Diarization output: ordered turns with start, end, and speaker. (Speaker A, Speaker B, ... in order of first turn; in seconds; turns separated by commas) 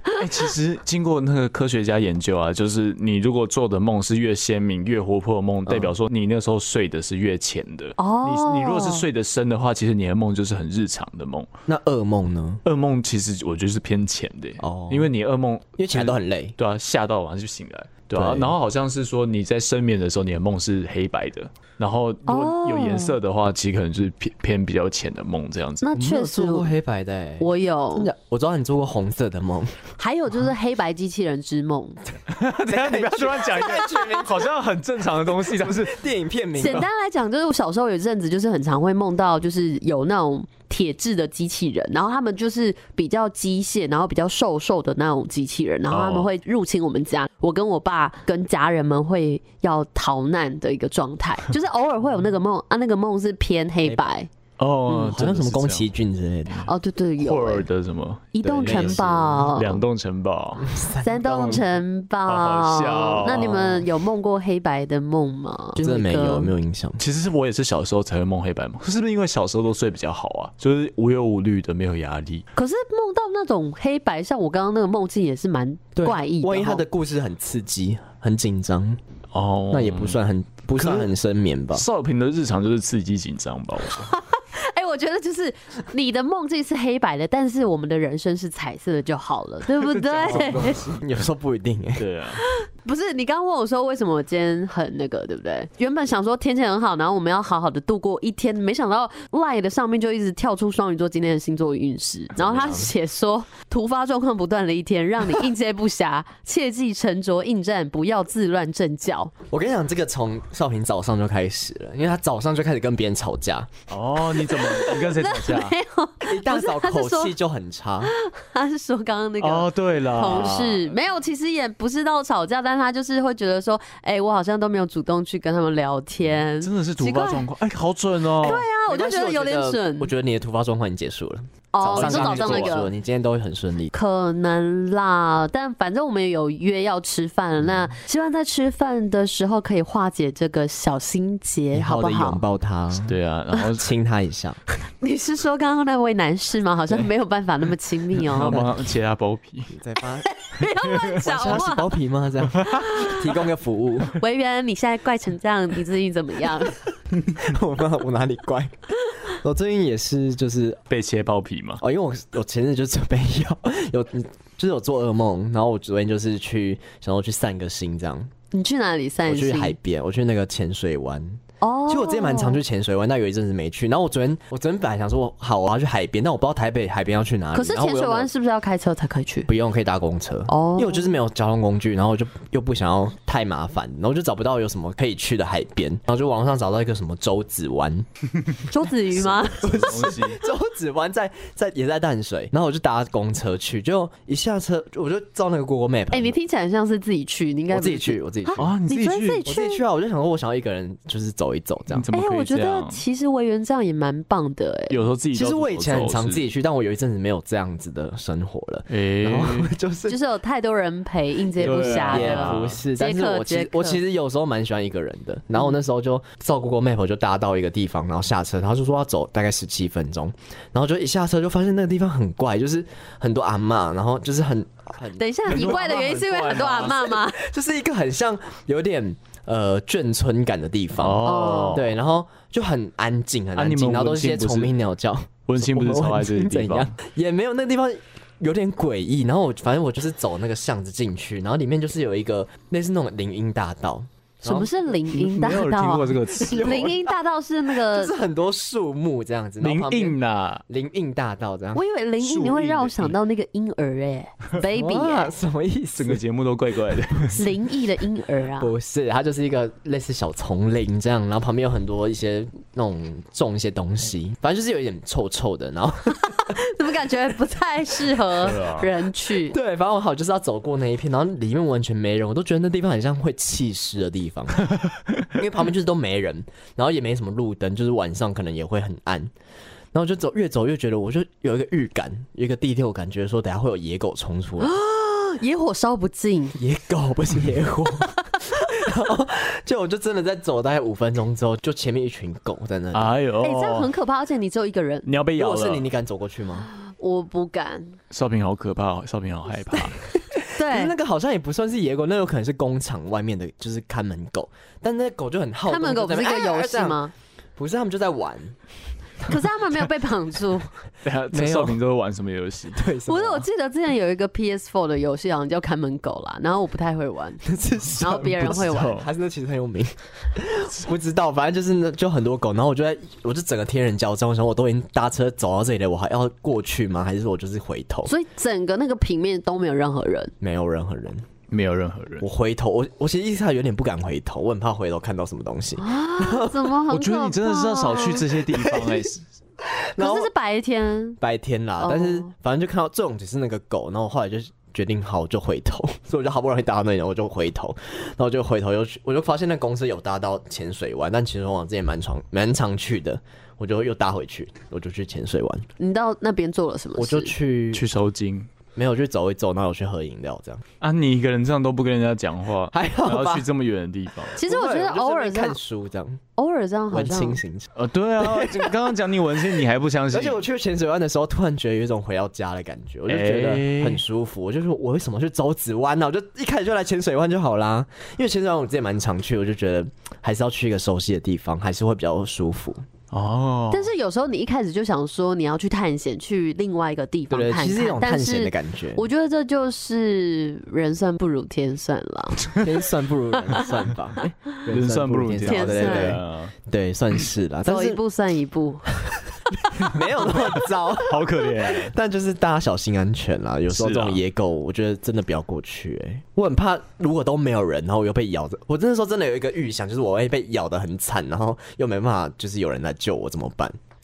Speaker A: 0.1-11.5, Speaker B: 5.7-5.9, Speaker C: 8.0-9.1, Speaker B: 11.7-12.6, Speaker A: 12.7-25.9, Speaker B: 14.6-15.1, Speaker B: 15.8-16.6, Speaker B: 18.1-18.6, Speaker C: 22.3-23.2, Speaker C: 25.8-26.7, Speaker B: 25.9-29.8, Speaker C: 27.4-28.1, Speaker C: 30.0-32.0, Speaker A: 32.3-36.0, Speaker B: 32.6-34.5, Speaker C: 33.6-34.0, Speaker B: 35.5-36.9, Speaker C: 36.6-54.3, Speaker A: 45.9-46.3, Speaker A: 54.6-55.9, Speaker B: 54.9-56.7, Speaker C: 56.6-57.7, Speaker A: 57.2-60.7, Speaker C: 58.3-59.8, Speaker B: 58.4-59.5, Speaker B: 60.6-61.6, Speaker C: 61.0-66.5, Speaker A: 62.3-63.9, Speaker B: 65.8-67.0, Speaker A: 67.0-72.5, Speaker C: 72.6-76.8, Speaker B: 76.0-79.0, Speaker A: 79.3-80.2, Speaker B: 79.7-81.8, Speaker A: 80.8-81.1, Speaker A: 81.7-84.1, Speaker C: 84.0-90.8, Speaker A: 89.8-91.0, Speaker B: 90.2-92.1, Speaker A: 92.0-92.4, Speaker C: 92.4-109.3, Speaker B: 102.4-102.9, Speaker B: 109.5-113.7, Speaker A: 113.9-115.8, Speaker C: 114.4-117.3, Speaker B: 116.2-118.1, Speaker C: 118.0-127.5, Speaker A: 119.4-120.9, Speaker A: 126.6-128.6, Speaker C: 128.4-130.1, Speaker B: 128.4-133.9, Speaker C: 131.7-132.9, Speaker A: 131.9-132.8, Speaker C: 133.9-142.4, Speaker B: 141.7-143.2, Speaker A: 143.1-143.9, Speaker B: 143.7-144.6, Speaker C: 145.0-148.7, Speaker A: 148.2-149.7, Speaker B: 149.7-154.2, Speaker C: 150.3-151.9, Speaker A: 152.6-152.9, Speaker C: 152.7-153.3, Speaker C: 154.1-156.8, Speaker B: 157.4-160.8, Speaker A: 160.9-161.8, Speaker B: 161.8-168.3, Speaker C: 168.5-169.8, Speaker B: 169.2-178.3, Speaker C: 171.6-172.6, Speaker C: 177.5-179.5, Speaker B: 179.5-188.1, Speaker C: 180.5-181.1, Speaker C: 188.7-190.2, Speaker B: 189.1-196.3, Speaker A: 189.6-190.4, Speaker C: 196.1-199.8, Speaker B: 197.7-198.8, Speaker A: 198.6-199.5, Speaker B: 199.4-202.1, Speaker A: 201.9-203.0, Speaker C: 202.1-205.0, Speaker A: 204.9-206.4, Speaker B: 205.3-210.2, Speaker A: 208.9-209.7, Speaker C: 210.1-214.0, Speaker B: 211.6-244.7, Speaker A: 211.6-212.8, Speaker C: 225.2-227.4, Speaker A: 225.5-227.2, Speaker A: 231.0-231.9, Speaker C: 231.2-231.8, Speaker A: 233.6-234.7, Speaker A: 235.5-236.9, Speaker C: 244.4-248.1, Speaker A: 245.1-246.9, Speaker B: 246.4-247.2, Speaker B: 247.7-251.8, Speaker A: 249.6-250.6, Speaker C: 251.7-255.3, Speaker A: 252.2-253.2, Speaker B: 254.6-256.2, Speaker A: 256.0-257.4, Speaker C: 257.3-258.7, Speaker B: 258.6-266.6, Speaker C: 266.1-269.6, Speaker A: 268.4-268.9, Speaker B: 269.4-274.7, Speaker B: 275.3-279.3, Speaker B: 279.9-284.7, Speaker C: 284.6-286.6, Speaker B: 286.6-293.1, Speaker A: 292.9-293.9, Speaker C: 293.4-295.1, Speaker A: 295.1-295.9, Speaker B: 295.4-296.7, Speaker C: 296.7-298.0, Speaker A: 298.1-299.9, Speaker B: 299.7-307.0, Speaker C: 300.6-300.9, Speaker C: 305.7-307.1, Speaker B: 307.6-308.6, Speaker C: 309.2-310.7, Speaker A: 311.0-312.9, Speaker B: 311.3-311.8, Speaker B: 312.7-313.5, Speaker C: 313.1-319.0, Speaker B: 317.4-328.1, Speaker A: 318.5-319.1, Speaker C: 328.1-330.3, Speaker B: 330.4-331.2, Speaker A: 331.5-332.3, Speaker B: 332.2-336.7, Speaker C: 335.8-338.3, Speaker A: 336.9-339.2, Speaker B: 338.5-339.1, Speaker B: 339.6-340.3, Speaker C: 340.0-341.2, Speaker B: 341.2-355.7, Speaker C: 341.8-342.3, Speaker C: 355.8-357.3, Speaker B: 357.0-357.9, Speaker A: 357.7-358.5, Speaker B: 358.8-360.6, Speaker A: 360.8-364.4, Speaker B: 362.7-363.5, Speaker B: 364.4-366.2, Speaker C: 364.4-365.6, Speaker C: 366.4-367.4, Speaker B: 366.9-368.8, Speaker A: 367.8-370.4, Speaker B: 370.1-382.8, Speaker A: 373.1-374.0, Speaker A: 383.1-383.9, Speaker C: 383.7-392.6, Speaker B: 387.3-389.1, Speaker B: 392.6-398.0, Speaker A: 394.7-396.5, Speaker C: 395.5-396.2, Speaker C: 397.7-398.9, Speaker B: 399.5-413.8, Speaker A: 399.8-401.9, Speaker A: 403.7-404.2